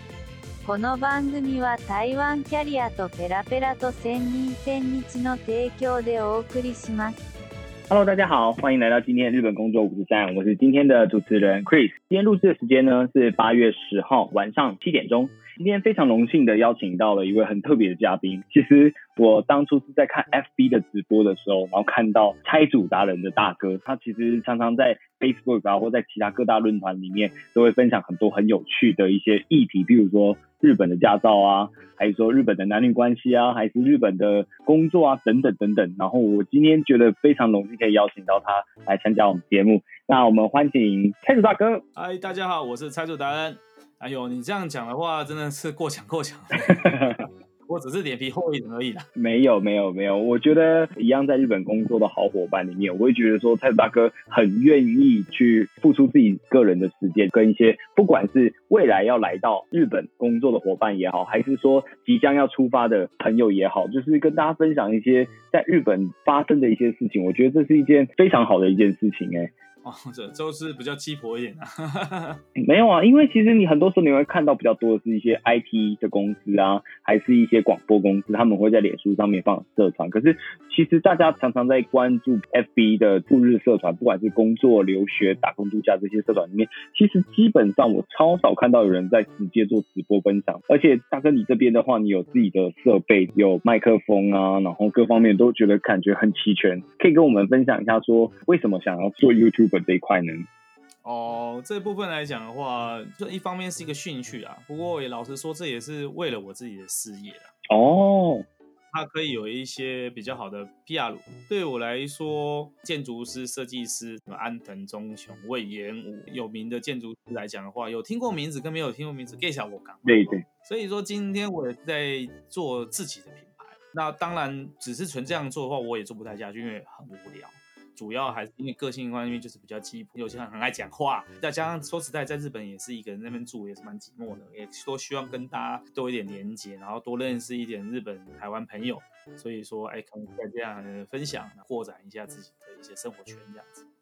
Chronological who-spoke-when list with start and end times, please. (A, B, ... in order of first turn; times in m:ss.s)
0:00.6-0:07.2 A
0:07.9-0:41.8 B
0:42.0-0:49.1 C
0:46.7-0:47.2 B
0:49.2-1:09.5 B
1:09.8-1:12.4 C
1:12.6-1:40.5 B
1:41.0-1:47.5 C
1:47.7-1:48.5 B
1:48.9-2:23.8 C
2:00.0-2:00.4 B